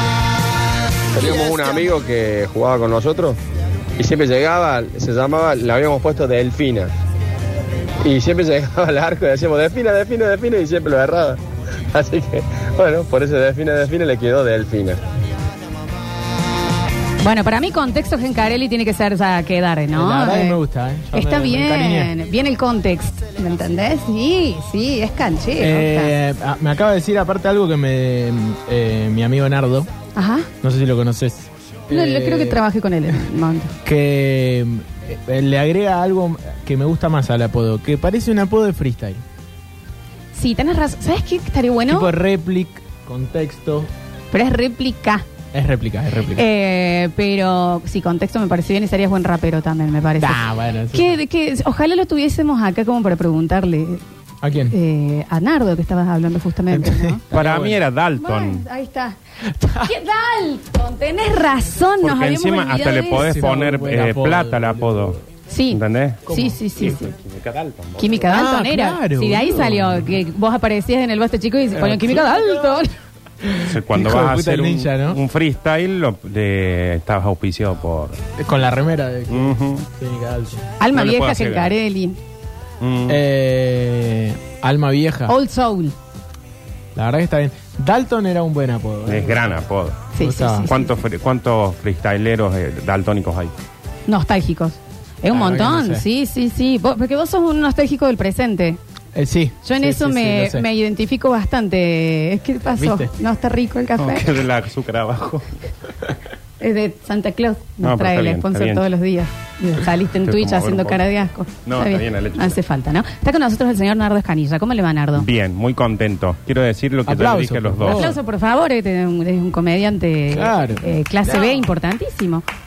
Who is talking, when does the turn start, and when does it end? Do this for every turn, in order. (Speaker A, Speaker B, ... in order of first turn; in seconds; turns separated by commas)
Speaker A: 1.1-3.4, Speaker A: 4.0-6.9, Speaker A: 8.0-11.4, Speaker A: 11.9-15.0, Speaker B: 17.2-20.6, Speaker C: 19.9-22.1, Speaker B: 21.1-26.1, Speaker C: 25.6-29.9, Speaker B: 30.1-30.5, Speaker C: 30.6-32.6, Speaker B: 31.9-33.7, Speaker C: 33.8-39.2, Speaker B: 40.3-42.1, Speaker C: 41.9-43.9, Speaker B: 44.3-45.3, Speaker C: 45.5-46.5, Speaker B: 46.3-54.0, Speaker C: 50.2-51.2, Speaker C: 54.4-54.8, Speaker B: 54.7-57.2, Speaker C: 56.7-57.8, Speaker D: 57.3-58.6, Speaker B: 58.2-59.2, Speaker C: 59.5-59.9, Speaker B: 59.7-63.2, Speaker D: 62.0-65.2, Speaker C: 63.1-65.2, Speaker B: 65.5-67.1, Speaker D: 65.7-68.2, Speaker C: 66.3-66.5, Speaker B: 68.0-72.9, Speaker C: 68.2-70.1, Speaker C: 71.7-72.7, Speaker C: 73.4-75.2, Speaker D: 73.6-78.2, Speaker C: 78.3-80.7, Speaker D: 79.3-79.8, Speaker B: 80.8-82.2, Speaker D: 80.9-81.7, Speaker D: 82.8-83.2, Speaker C: 83.1-85.3, Speaker B: 85.3-85.9, Speaker C: 86.9-89.5, Speaker D: 89.0-90.1, Speaker B: 90.1-90.9, Speaker C: 90.2-90.7, Speaker D: 90.6-93.5, Speaker B: 94.1-98.8, Speaker C: 95.3-96.0, Speaker C: 99.1-100.7, Speaker B: 99.6-104.3, Speaker C: 102.7-103.1, Speaker D: 104.0-105.5, Speaker B: 106.6-115.2, Speaker D: 107.8-108.8, Speaker D: 110.2-111.1, Speaker D: 111.6-112.6, Speaker D: 115.2-118.1, Speaker C: 117.0-118.2, Speaker B: 117.9-122.4, Speaker C: 120.3-121.6